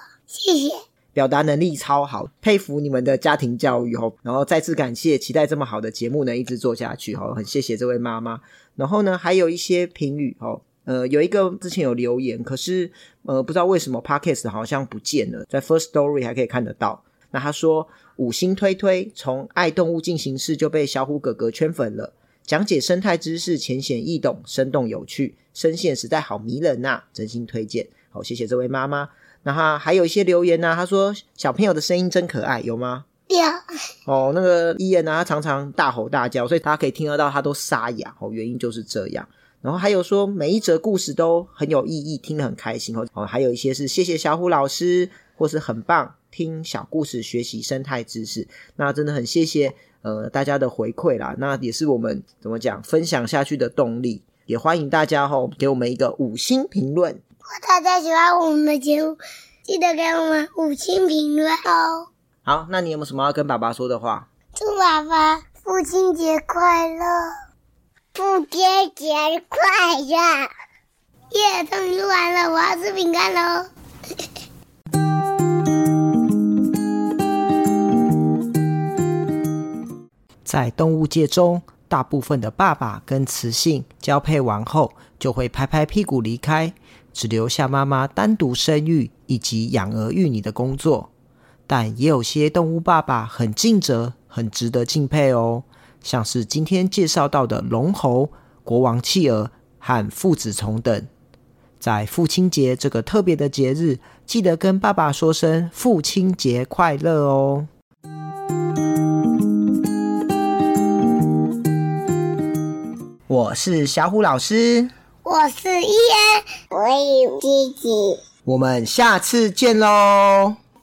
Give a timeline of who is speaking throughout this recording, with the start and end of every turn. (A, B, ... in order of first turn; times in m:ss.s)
0:00.3-0:00.8 A
0:01.1-0:33.1 B
0:33.3-0:33.6 A
0:34.1-0:57.2 B
0:57.5-1:02.1 A
1:02.4-1:04.3 B
1:04.6-1:07.3 A
1:08.2-1:10.5 A
1:11.3-1:13.7 A
1:20.4-1:31.1 B
1:31.7-1:41.1 B
1:41.8-1:47.7 B
1:53.3-1:54.9 B
1:55.2-1:58.2 A
1:58.4-2:00.6 B